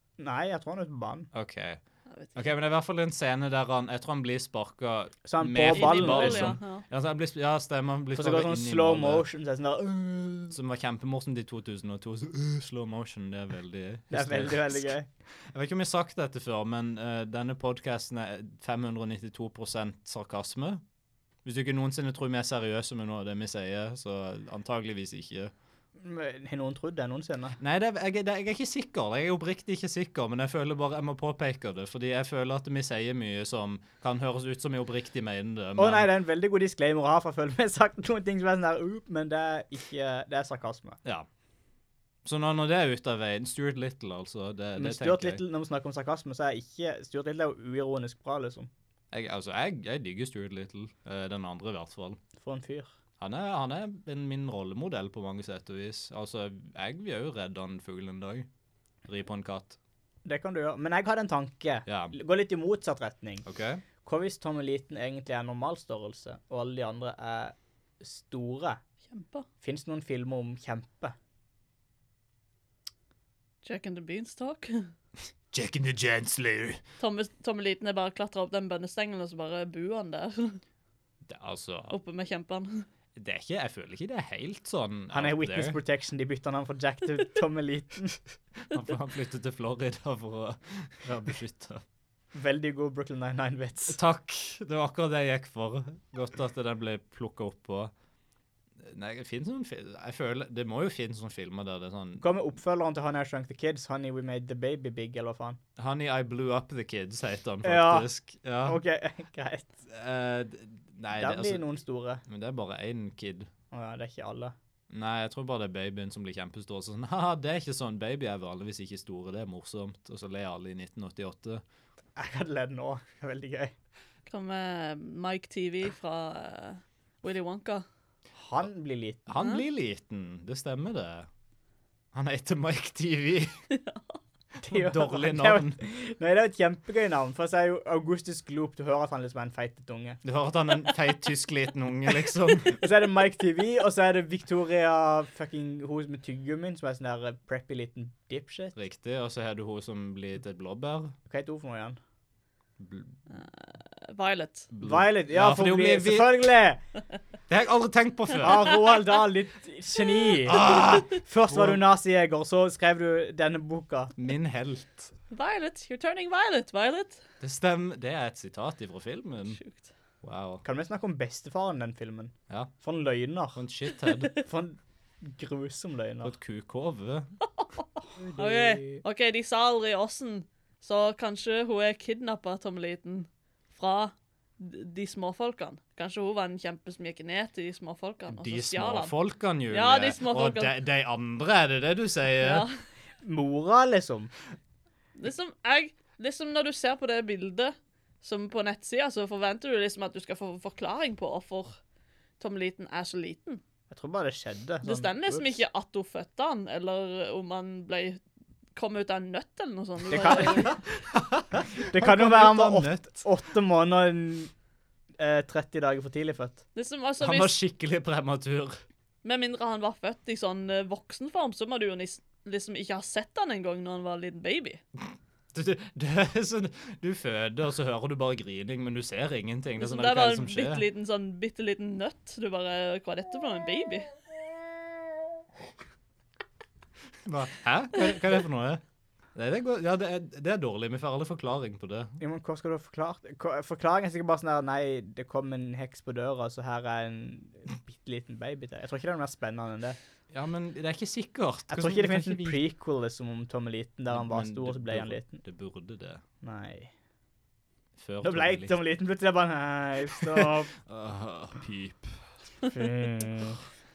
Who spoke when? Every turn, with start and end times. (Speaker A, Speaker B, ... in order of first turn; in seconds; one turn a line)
Speaker A: 0.2-1.3
Speaker B: 1.3-1.8
Speaker C: 2.1-2.5
Speaker B: 2.4-9.2
Speaker A: 5.2-6.6
Speaker C: 5.7-6.8
Speaker A: 8.2-10.6
Speaker B: 10.5-20.8
Speaker A: 14.1-15.1
Speaker B: 21.4-25.5
Speaker A: 26.0-27.6
Speaker B: 27.6-36.1
Speaker A: 35.8-41.0
Speaker B: 42.2-45.4
Speaker A: 44.8-48.7
Speaker B: 49.1-52.2
Speaker A: 52.4-52.9
Speaker B: 53.2-58.5
Speaker B: 59.1-59.8
Speaker A: 60.2-63.4
Speaker B: 61.9-62.1
Speaker B: 63.4-63.8
Speaker A: 64.0-68.8
Speaker C: 69.1-69.5
Speaker A: 69.6-71.2
Speaker C: 73.6-74.9
Speaker B: 75.5-76.8
Speaker C: 77.0-80.6
Speaker B: 81.2-81.9
Speaker C: 81.9-82.9
Speaker B: 83.2-85.8
Speaker A: 85.1-88.2
Speaker B: 88.7-91.8
Speaker A: 92.3-94.0
Speaker B: 93.9-97.9
Speaker B: 98.8-102.2
Speaker A: 102.2-105.6
Speaker B: 105.8-108.8
Speaker A: 107.6-108.1
Speaker A: 108.7-109.7
Speaker B: 109.9-111.6
Speaker A: 111.2-112.2
Speaker B: 112.3-113.5
Speaker A: 113.7-114.5
Speaker B: 114.9-121.6
Speaker A: 122.2-123.7
Speaker C: 124.3-127.8
Speaker A: 128.4-129.3
Speaker B: 129.3-131.3
Speaker C: 129.4-129.6
Speaker B: 132.1-133.5
Speaker C: 133.7-134.2
Speaker A: 134.6-140.2
Speaker B: 134.7-135.8
Speaker B: 140.2-142.8
Speaker A: 142.7-148.8
Speaker B: 148.8-151.1
Speaker A: 151.3-152.0
Speaker B: 152.8-153.2
Speaker C: 153.3-154.7
Speaker B: 154.7-156.5
Speaker A: 154.8-156.8
Speaker B: 157.5-158.8
Speaker A: 158.4-164.1
Speaker B: 160.4-161.8
Speaker B: 164.2-165.1
Speaker C: 165.3-167.2
Speaker B: 167.4-169.6
Speaker C: 169.5-169.9
Speaker B: 170.2-170.6
Speaker A: 170.6-173.6
Speaker B: 173.6-174.3
Speaker A: 174.4-176.3
Speaker B: 176.2-177.3
Speaker A: 178.2-179.0
Speaker C: 178.4-189.1
Speaker B: 188.3-192.7
Speaker C: 189.7-190.7
Speaker C: 192.4-192.8
Speaker A: 193.2-194.3
Speaker C: 195.2-201.8
Speaker C: 202.4-203.6
Speaker A: 203.9-205.6
Speaker C: 204.8-208.2
Speaker C: 208.8-210.8
Speaker A: 210.1-210.7
Speaker B: 210.6-213.3
Speaker A: 211.8-214.5
Speaker A: 215.2-216.6
Speaker C: 216.8-217.5
Speaker B: 217.2-218.8
Speaker C: 219.2-224.8
Speaker B: 225.5-230.8
Speaker C: 229.8-234.1
Speaker B: 237.2-238.8
Speaker B: 239.3-242.2
Speaker A: 242.2-250.0
Speaker B: 250.3-252.6
Speaker A: 251.7-255.4
Speaker B: 254.1-256.2
Speaker A: 256.4-256.9
Speaker B: 258.0-258.8
Speaker A: 258.2-260.7
Speaker B: 260.2-262.2
Speaker A: 262.7-263.6